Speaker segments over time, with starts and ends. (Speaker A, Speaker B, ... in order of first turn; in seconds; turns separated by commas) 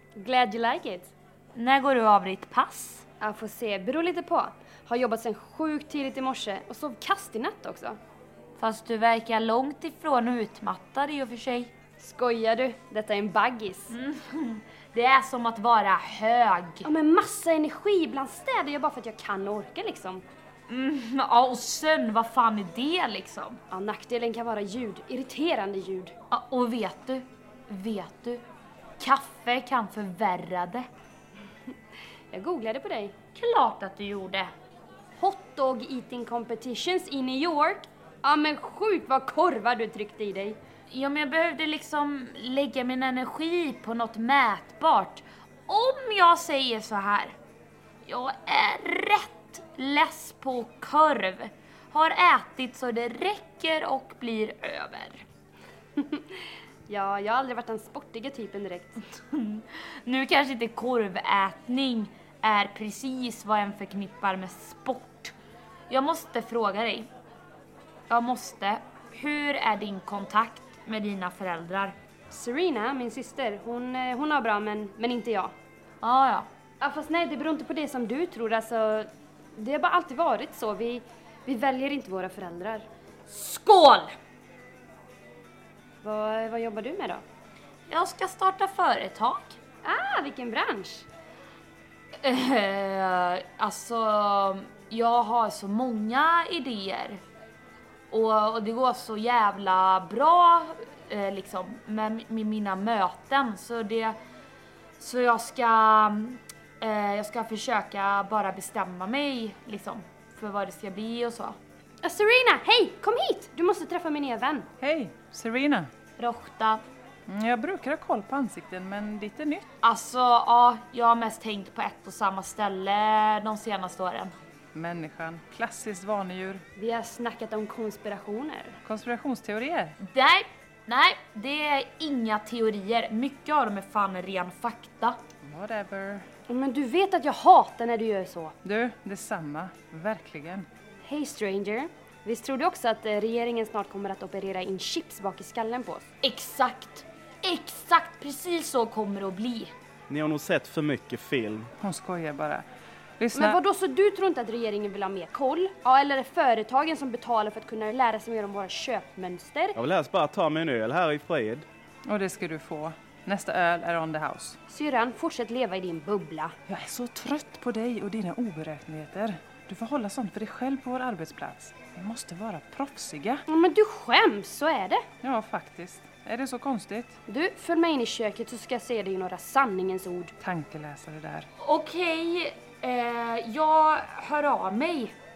Speaker A: 0.2-1.1, Speaker B: 1.5-3.1, Speaker A: 3.2-8.0, Speaker B: 8.6-11.7, Speaker A: 12.0-13.9, Speaker B: 13.9-16.9, Speaker A: 16.9-20.2, Speaker B: 20.7-23.6, Speaker A: 23.7-26.1, Speaker B: 26.3-28.4, Speaker B: 29.0-30.9, Speaker A: 32.3-33.1, Speaker B: 33.3-34.5, Speaker A: 35.2-40.6, Speaker B: 40.9-47.4, Speaker B: 48.0-55.2, Speaker A: 56.0-59.0, Speaker B: 59.1-65.3, Speaker B: 65.9-67.1, Speaker B: 68.1-72.0, Speaker A: 72.3-75.5, Speaker B: 76.0-76.5, Speaker A: 76.8-82.9, Speaker B: 83.3-84.1, Speaker A: 86.0-87.2, Speaker B: 87.9-89.6, Speaker A: 89.8-91.1, Speaker B: 92.2-97.2, Speaker B: 98.1-104.2, Speaker B: 105.0-111.6, Speaker A: 112.0-114.7, Speaker C: 114.8-115.9, Speaker B: 116.2-116.8, Speaker C: 117.3-119.7, Speaker B: 119.8-124.3, Speaker C: 124.7-126.6, Speaker A: 126.8-128.8, Speaker C: 128.9-129.9, Speaker B: 130.0-135.2, Speaker C: 135.4-136.3, Speaker A: 136.5-138.6, Speaker C: 138.6-140.7, Speaker A: 141.0-146.1, Speaker B: 146.2-149.7, Speaker D: 150.1-151.7, Speaker C: 151.8-152.7, Speaker C: 153.2-153.5, Speaker A: 153.3-159.8, Speaker D: 159.8-161.7, Speaker C: 162.1-164.5, Speaker A: 164.7-166.6, Speaker C: 166.7-173.4, Speaker A: 173.5-175.0, Speaker C: 175.2-177.2, Speaker A: 177.3-180.3, Speaker C: 180.4-181.5, Speaker B: 181.6-185.2